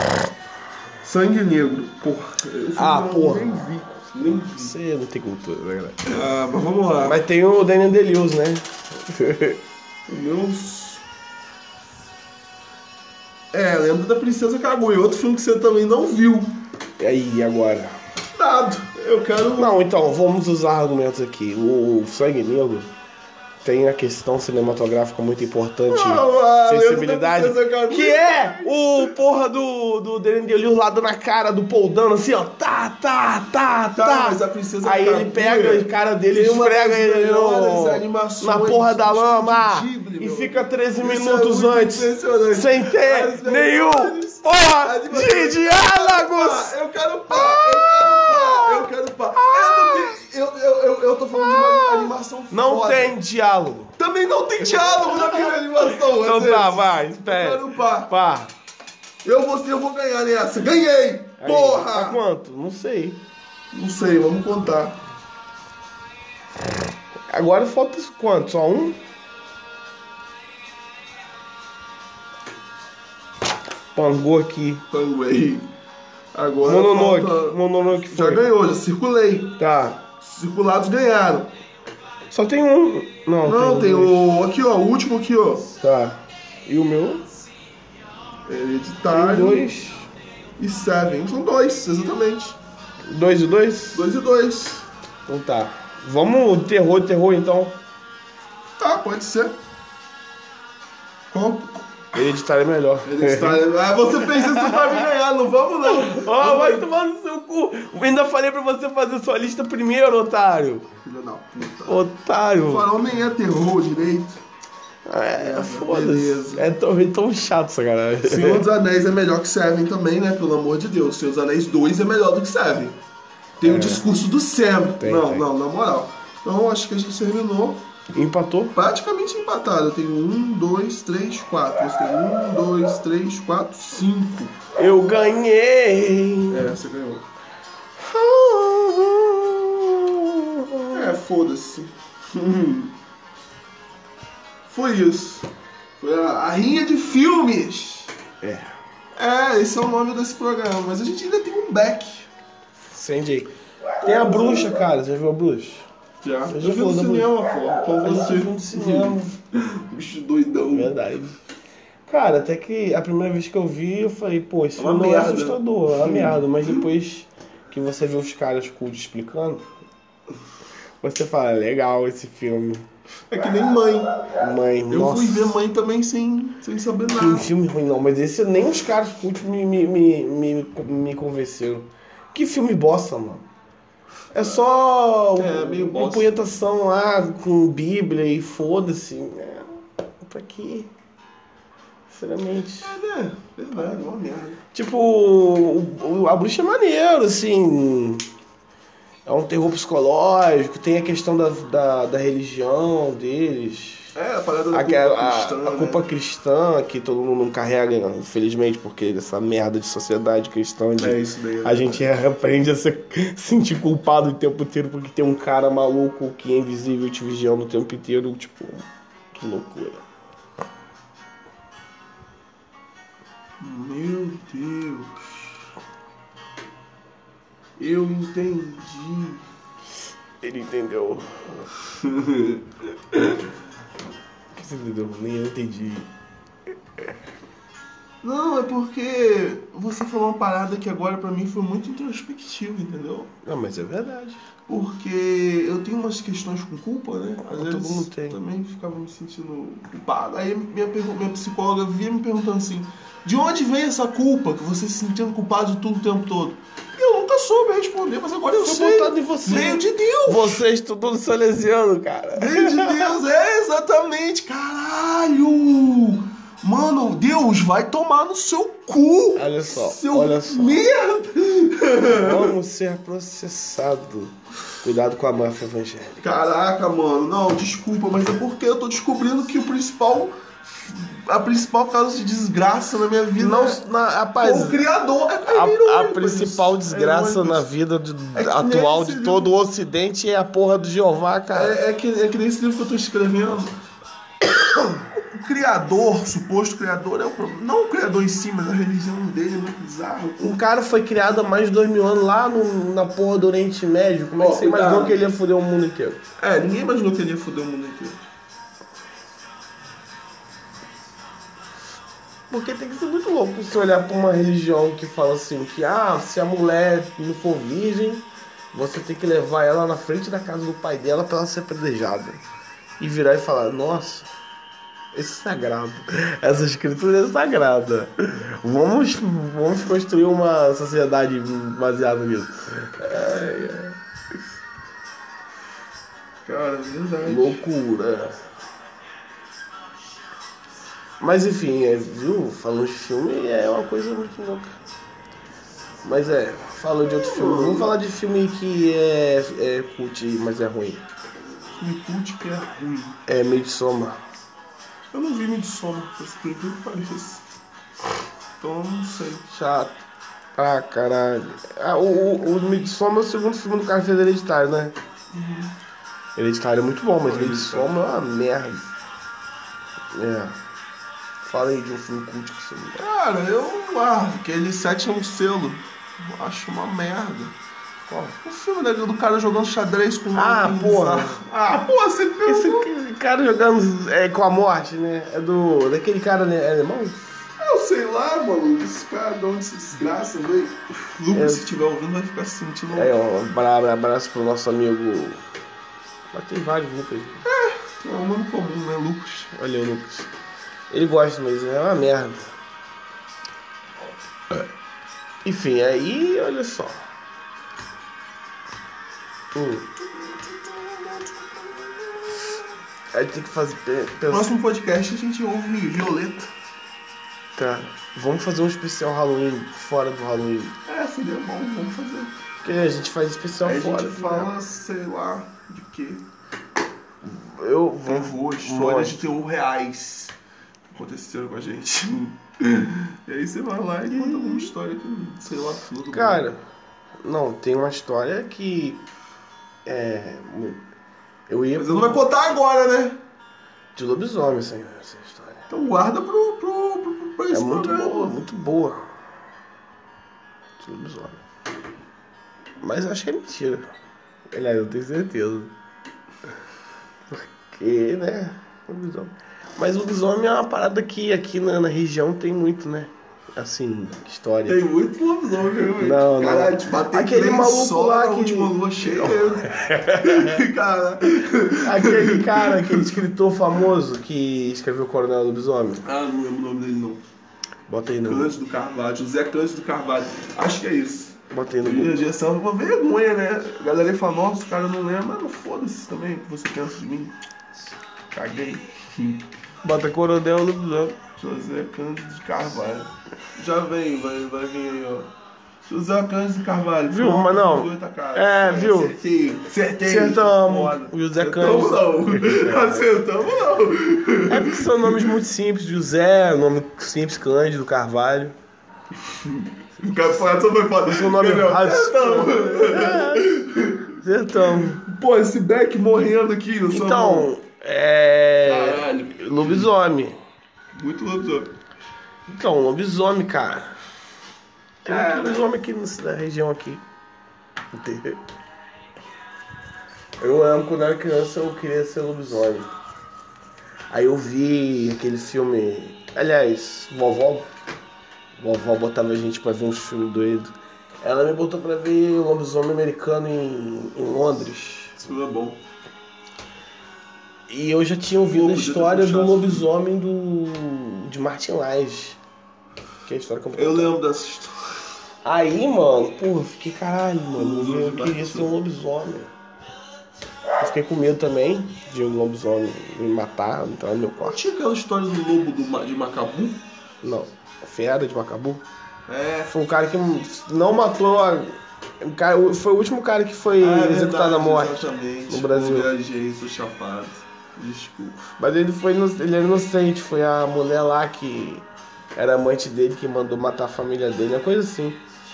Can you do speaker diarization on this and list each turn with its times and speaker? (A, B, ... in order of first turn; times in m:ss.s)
0:01.0-0:04.7 A
0:02.8-0:06.1 B
0:06.1-0:07.2 A
0:07.0-0:09.6 B
0:10.1-0:11.0 A
0:13.5-0:16.6 A
0:17.0-0:18.0 B
0:18.3-0:19.8 A
0:19.6-0:22.9 B
0:23.6-0:46.8 B
0:25.9-0:29.1 A
0:33.9-0:53.2 A
0:47.3-0:50.2 B
0:51.4-0:54.0 B
0:54.0-0:58.1 A
0:54.7-0:58.5 B
0:59.2-1:02.2 A
1:01.4-1:03.2 B
1:03.7-1:05.0 A
1:07.3-1:09.0 B
1:14.0-1:14.8 B
1:14.9-1:15.7 A
1:16.3-1:19.6 A
1:16.6-1:18.5 B
1:19.6-1:20.0 B
1:20.2-1:21.5 A
1:22.3-1:24.3 B
1:23.4-1:25.7 A
1:25.8-1:27.3 B
1:28.5-1:29.7 A
1:29.1-1:30.1 B
1:30.6-1:32.6 A
1:33.1-1:34.1 B
1:33.9-1:34.9 A
1:35.3-1:37.8 B
1:38.8-1:39.6 A
1:41.3-1:41.8 A
1:42.1-1:43.6 B
1:43.0-1:46.9 A
1:44.2-1:45.0 B
1:45.8-1:50.9 B
1:51.0-1:52.0 A
1:51.9-1:52.9 B
1:52.6-1:54.4 A
1:55.1-1:58.6 B
1:55.4-1:56.7 A
1:58.2-2:03.0 A
2:03.6-2:07.8 A
2:03.6-2:04.1 B
2:05.0-2:05.5 B
2:08.1-2:08.8 B
2:08.7-2:14.6 A
2:14.8-2:16.7 B
2:16.5-2:17.3 A
2:18.0-2:21.2 B
2:20.9-2:22.9 A
2:24.7-2:28.1 A
2:28.4-2:28.7 B
2:29.2-2:32.3 A
2:32.9-2:35.9 B
2:34.0-2:34.8 A
2:36.2-2:40.9 A
2:36.5-2:37.4 B
2:38.0-2:39.4 B
2:40.7-2:41.4 B
2:42.1-2:49.6 B
2:44.8-2:46.8 A
2:51.0-2:52.8 B
2:53.3-2:54.4 A
2:54.4-2:55.5 B
2:54.9-2:57.5 A
2:57.2-3:03.4 B
3:04.3-3:10.9 B
3:05.4-3:06.3 A
3:12.1-3:13.0 B
3:12.8-3:14.6 A
3:14.7-3:18.3 B
3:19.3-3:24.1 B
3:24.2-3:26.0 A
3:24.7-3:40.0 B
3:31.0-3:32.1 A
3:43.6-3:45.6 A
3:47.8-3:49.4 A
3:50.4-3:51.7 B
3:51.9-3:53.4 A
3:54.5-3:56.1 B
3:58.2-4:03.3 A
4:03.4-4:04.4 B
4:04.7-4:20.6 A
4:07.4-4:08.4 B
4:18.6-4:23.1 B
4:22.4-4:32.6 A
4:29.4-4:30.8 B
4:32.1-4:36.2 B
4:36.2-4:43.8 A
4:43.4-4:44.8 B
4:44.4-4:47.7 A
4:45.4-4:51.8 B
4:48.4-4:49.6 A
4:51.5-4:53.8 A
4:54.7-4:55.0 B
4:55.1-5:00.6 A
5:00.4-5:06.2 B
5:04.4-5:05.2 A
5:06.4-5:08.2 A
5:12.5-5:22.4 B
5:23.0-5:24.3 B
5:25.1-5:34.0 B
5:36.4-5:37.6 A
5:37.2-5:38.4 B
5:41.2-5:44.7 B
5:46.0-5:51.0 B
5:47.0-5:47.9 A
5:51.8-5:53.2 A
5:53.3-5:54.2 B
5:55.1-5:57.4 A
5:58.6-5:59.5 A
5:59.5-6:00.0 B
6:00.6-6:05.0 B
6:05.3-6:05.7 A
6:06.4-6:08.9 B
6:07.2-6:07.9 A
6:10.1-6:10.6 B
6:11.4-6:13.0 B
6:13.0-6:17.6 A
6:18.1-6:18.4 B
6:18.4-6:22.9 A
6:20.4-6:21.4 B
6:22.5-6:27.3 B
6:27.6-6:33.2 A
6:31.3-6:31.6 B
6:32.9-6:35.4 B
6:36.3-6:37.4 B
6:37.4-6:39.5 A
6:39.5-6:40.3 B
6:40.9-6:42.5 B
6:45.4-6:47.0 B
6:49.5-6:49.9 B
6:50.0-6:52.6 A
6:53.1-6:54.5 B
6:54.3-6:56.5 A
6:57.6-7:00.8 B
7:00.9-7:02.3 A
7:02.6-7:04.5 B
7:03.6-7:06.2 A
7:07.2-7:09.2 B
7:08.1-7:10.4 A
7:10.9-7:16.6 A
7:14.1-7:14.7 B
7:16.1-7:16.6 B
7:17.2-7:19.0 B
7:19.9-7:20.8 B
7:21.5-7:22.2 B
7:21.8-7:23.2 A
7:24.0-7:25.7 B
7:25.7-7:28.4 A
7:27.5-7:29.0 B
7:30.8-7:31.4 B
7:32.8-7:33.9 B
7:34.5-7:35.7 B
7:37.3-7:44.8 B
7:44.7-7:53.2 A
7:46.0-7:50.6 B
7:51.8-7:56.0 B
7:56.0-7:57.2 A
7:57.9-7:58.5 B
7:58.3-8:07.4 A
8:01.5-8:02.2 B
8:08.3-8:09.4 A
8:09.8-8:11.2 B
8:11.4-8:15.3 A
8:15.9-8:25.4 A
8:17.1-8:19.2 B
8:20.0-8:23.1 B
8:24.5-8:28.6 B
8:29.2-8:34.2 A
8:31.0-8:33.6 B
8:34.1-8:35.0 B
8:34.7-8:37.5 A
8:36.9-8:40.4 B
8:38.6-8:39.9 A
8:41.0-8:41.7 A
8:42.5-8:44.0 B
8:45.0-8:47.0 B
8:45.1-8:45.7 A
8:47.9-8:48.4 B
8:50.4-8:52.9 B
8:54.1-8:57.7 B
8:58.6-9:05.2 B
9:05.2-9:05.8 A
9:07.7-9:12.4 B
9:08.5-9:09.9 A
9:13.2-9:14.2 B
9:13.8-9:15.0 A
9:15.4-9:19.5 B
9:17.6-9:18.7 A
9:20.8-9:24.6 B
9:24.4-9:26.8 A
9:27.2-9:28.8 B
9:29.3-9:29.7 A
9:29.7-9:36.1 B
9:33.8-9:38.4 A
9:38.6-9:45.2 B